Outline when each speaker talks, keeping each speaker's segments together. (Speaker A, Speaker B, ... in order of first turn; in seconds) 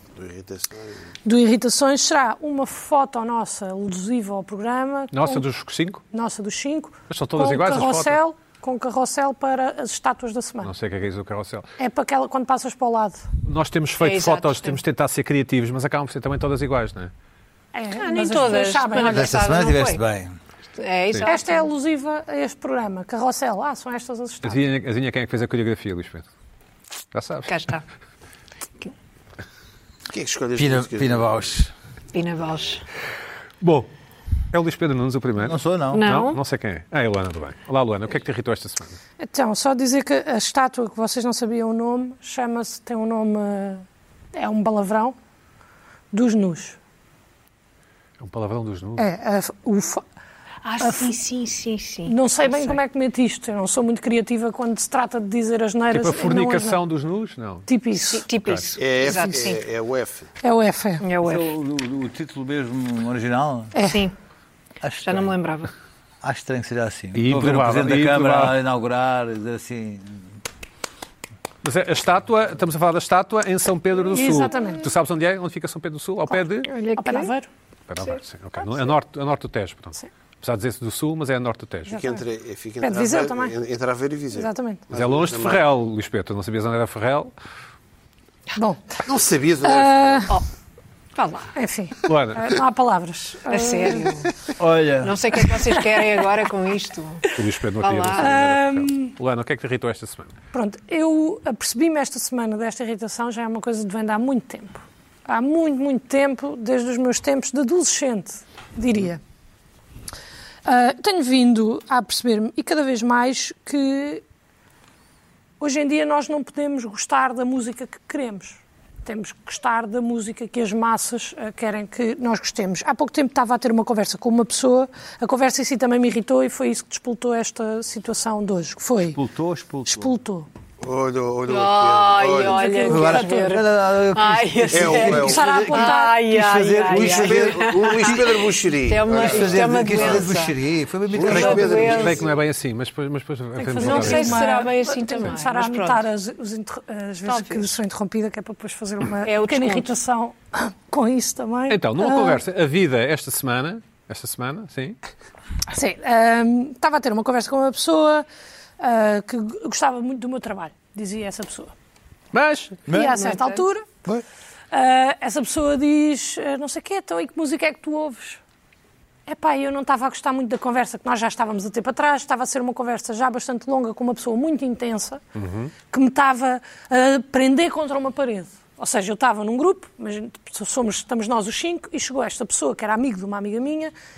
Speaker A: 0.2-1.0, 30.1-31.4, 58.8-60.3, 81.9-85.7, 89.1-90.3, 130.8-132.7, 134.7-135.9, 136.9-140.3, 141.1-142.4
Speaker B: 1.2-5.5, 6.1-10.7, 11.8-13.2, 17.7-19.4, 21.2-24.6, 39.2-45.2, 46.1-46.8, 49.0-50.0, 50.8-51.1, 52.1-56.8, 57.7-58.3, 60.4-61.0, 63.7-64.0, 74.1-74.9, 77.0-77.5, 81.9-82.2, 82.8-83.5, 84.3-84.8, 88.5-89.1, 89.6-90.3, 91.5-94.2, 95.5-96.2, 98.2-99.2, 100.5-109.2, 110.7-114.2, 115.6-129.2, 129.9-130.5, 132.4-133.6, 135.2-136.2, 143.6-152.4, 155.7-158.2, 158.8-161.7, 162.9-163.9, 164.7-168.4, 169.3-175.2, 175.9-183.9
Speaker C: 5.1-6.0, 7.1-8.2, 10.6-11.7, 13.4-17.1, 24.4-26.3, 27.1-27.5, 33.6-33.9, 34.5-39.0, 48.2-49.1, 55.9-57.7, 58.4-58.7, 67.1-68.6, 71.6-76.7, 77.9-82.0, 84.9-87.3, 92.1-92.5, 97.3-100.3, 141.3-144.5, 151.7-155.0, 162.3-162.8, 175.4-175.7
Speaker D: 14.0-14.8, 18.0-20.0, 20.8-21.7, 27.5-27.8, 32.1-32.9, 35.9-36.4, 50.6-52.8, 58.0-59.6, 61.0-61.5, 63.9-64.2, 65.0-65.7, 76.7-77.3, 91.2-91.5, 93.5-94.3, 95.0-97.3, 97.8-98.3, 131.5-140.6, 141.2-142.2, 143.8-146.0, 147.2-147.7, 149.2-149.9, 162.9-163.7
Speaker E: 19.1-20.4, 30.6-31.7, 35.4-36.0, 61.2-63.8, 64.8-65.3, 66.2-70.3, 94.6-95.4, 129.2-130.1, 132.9-138.4, 139.1-142.1, 162.9-163.2